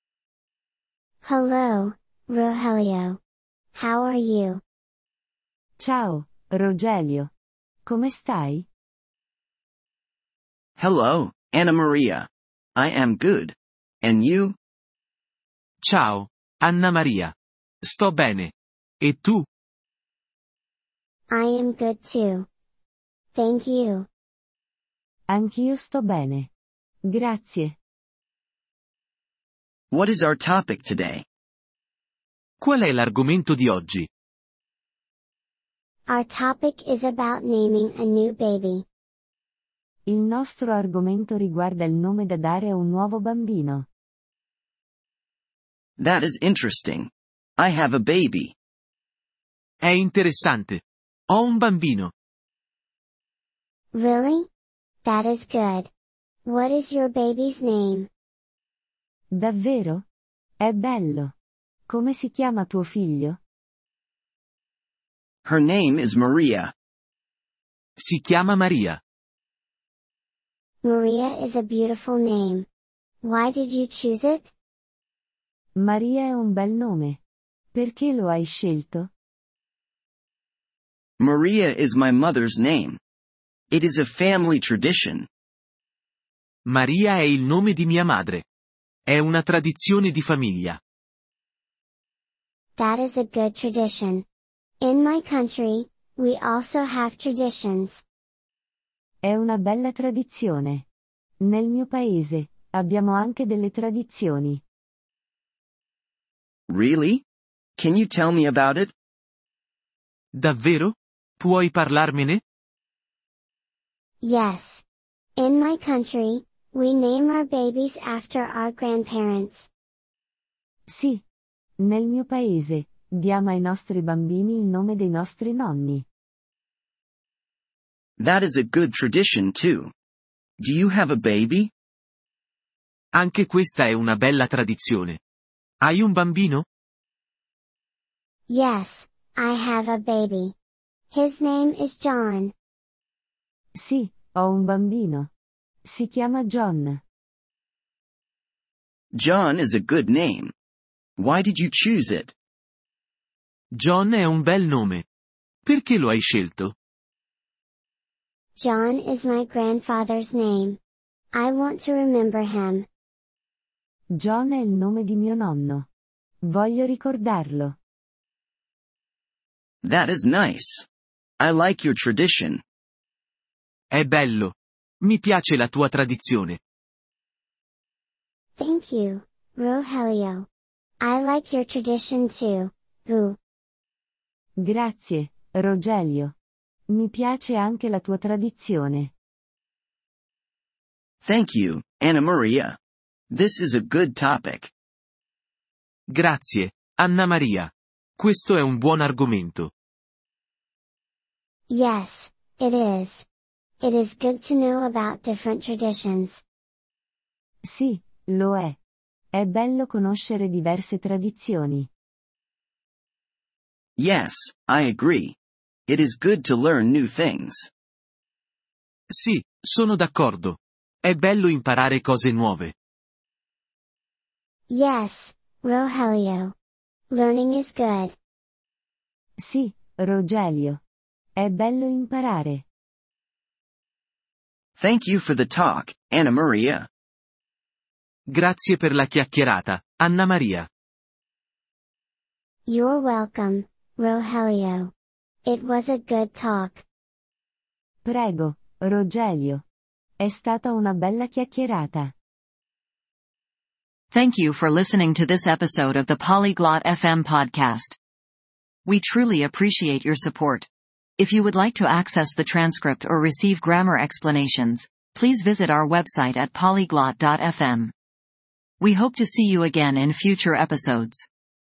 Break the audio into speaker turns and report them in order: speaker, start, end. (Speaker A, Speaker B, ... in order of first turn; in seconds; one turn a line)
Speaker A: 1.2-3.2
Speaker A: 3.8-4.6
Speaker B: 5.8-7.3
Speaker B: 7.9-8.7
Speaker C: 10.8-14.6
Speaker D: 15.8-19.5
Speaker A: 21.3-22.5
Speaker A: 23.4-24.1
Speaker B: 25.3-26.5
Speaker B: 27.1-27.8
Speaker C: 29.9-31.2
Speaker D: 32.6-34.1
Speaker A: 36.1-38.8
Speaker B: 40.1-43.9
Speaker C: 46.0-48.5
Speaker D: 49.8-52.1
Speaker A: 53.9-54.5
Speaker A: 55.0-55.9
Speaker A: 56.4-58.1
Speaker B: 59.3-60.0
Speaker B: 60.6-61.3
Speaker B: 61.9-63.4
Speaker C: 65.4-66.7
Speaker D: 68.0-69.0
Speaker A: 70.8-72.7
Speaker A: 73.2-74.5
Speaker B: 75.8-77.2
Speaker B: 77.7-79.1
Speaker C: 81.2-83.0
Speaker C: 83.7-85.3
Speaker D: 86.7-88.4
Speaker D: 89.1-90.8
Speaker A: 92.8-94.2
Speaker A: 94.8-98.0
Speaker B: 99.2-100.8
Speaker B: 101.4-104.6
Speaker C: 106.7-107.2
Speaker C: 107.8-108.9
Speaker D: 110.3-112.4
Speaker A: 114.2-114.8
Speaker A: 115.4-119.7
Speaker B: 120.9-121.2
Speaker B: 121.8-126.0
Speaker C: 128.2-129.9
Speaker C: 130.6-131.7
Speaker D: 133.2-135.2
Speaker D: 135.8-136.7
Speaker A: 138.5-140.6
Speaker A: 141.1-142.5
Speaker B: 143.8-145.3
Speaker B: 145.8-147.0
Speaker C: 149.2-150.5
Speaker C: 151.2-152.3
Speaker D: 153.8-155.0
Speaker D: 155.7-156.7
Speaker A: 158.6-160.8
Speaker A: 161.3-162.9
Speaker B: 164.1-165.9
Speaker B: 166.4-167.8
Speaker C: 169.8-170.9
Speaker C: 171.4-172.6
Speaker D: 173.9-176.6
Speaker A: 178.6-180.5
Speaker A: 181.0-183.4
Speaker B: 184.6-186.3
Speaker B: 186.9-189.1
Speaker C: 191.2-192.8
Speaker C: 193.3-194.7
Speaker D: 196.1-199.7
Speaker A: 201.7-203.3
Speaker A: 203.8-206.4
Speaker B: 207.7-208.8
Speaker B: 209.3-211.9
Speaker C: 214.0-215.4
Speaker C: 215.9-217.7
Speaker D: 219.1-222.7
Speaker A: 224.7-226.6
Speaker A: 227.1-228.2
Speaker B: 229.4-230.8
Speaker B: 231.4-232.6
Speaker C: 234.8-236.9
Speaker D: 238.3-240.7
Speaker A: 242.7-244.9
Speaker A: 245.5-246.8
Speaker B: 248.0-249.6
Speaker B: 250.2-252.1
Speaker E: 254.1-258.0
Speaker E: 258.9-267.9
Speaker E: 268.8-271.3